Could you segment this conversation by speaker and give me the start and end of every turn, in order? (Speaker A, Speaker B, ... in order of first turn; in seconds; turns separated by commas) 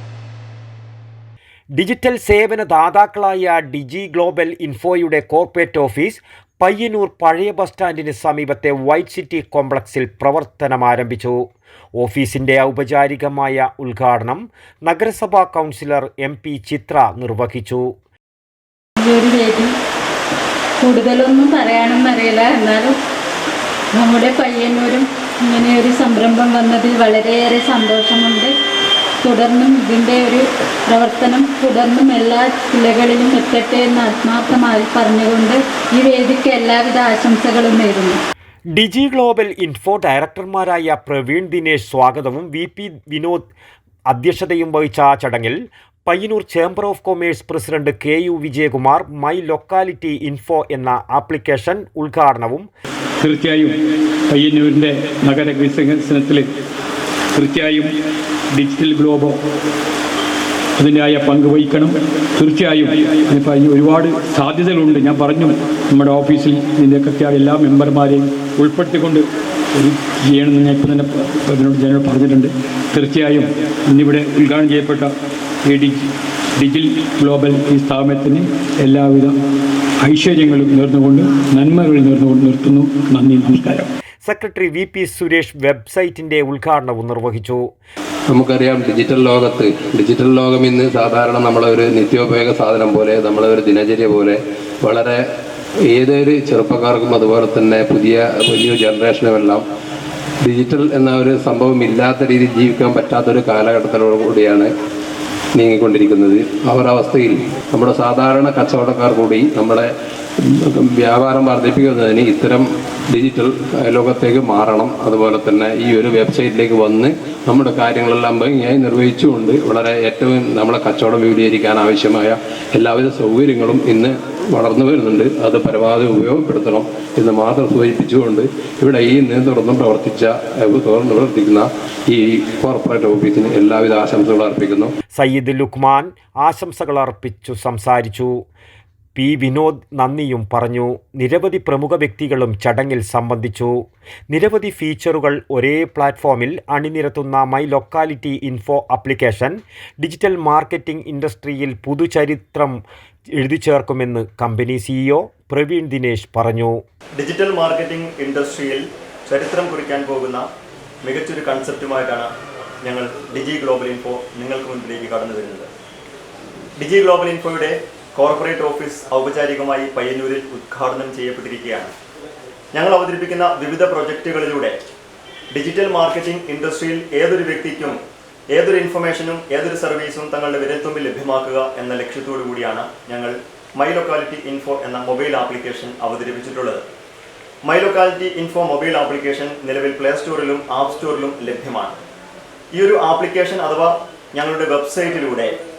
Speaker A: 1.8-11.4, Speaker A: 12.0-17.9, Speaker B: 19.0-19.8, Speaker B: 20.8-23.0, Speaker B: 23.9-28.6, Speaker B: 29.2-38.2, Speaker A: 38.8-43.5, Speaker A: 44.1-52.7, Speaker C: 53.2-53.8, Speaker C: 54.3-56.5, Speaker C: 57.4-57.9, Speaker C: 58.5-59.4, Speaker C: 60.8-75.1, Speaker C: 75.7-79.3, Speaker C: 80.0-83.9, Speaker A: 84.2-87.7, Speaker D: 88.3-95.2, Speaker D: 95.9-99.6, Speaker D: 100.4-104.7, Speaker D: 105.5-134.9, Speaker A: 135.2-138.4, Speaker A: 139.2-152.8, Speaker A: 153.4-156.8, Speaker E: 157.2-160.5, Speaker E: 161.0-165.7, Speaker E: 166.8-171.9, Speaker E: 172.7-174.8, Speaker E: 175.5-178.0, Speaker E: 178.5-186.8, Speaker E: 187.6-192.0, Speaker E: 192.7-195.6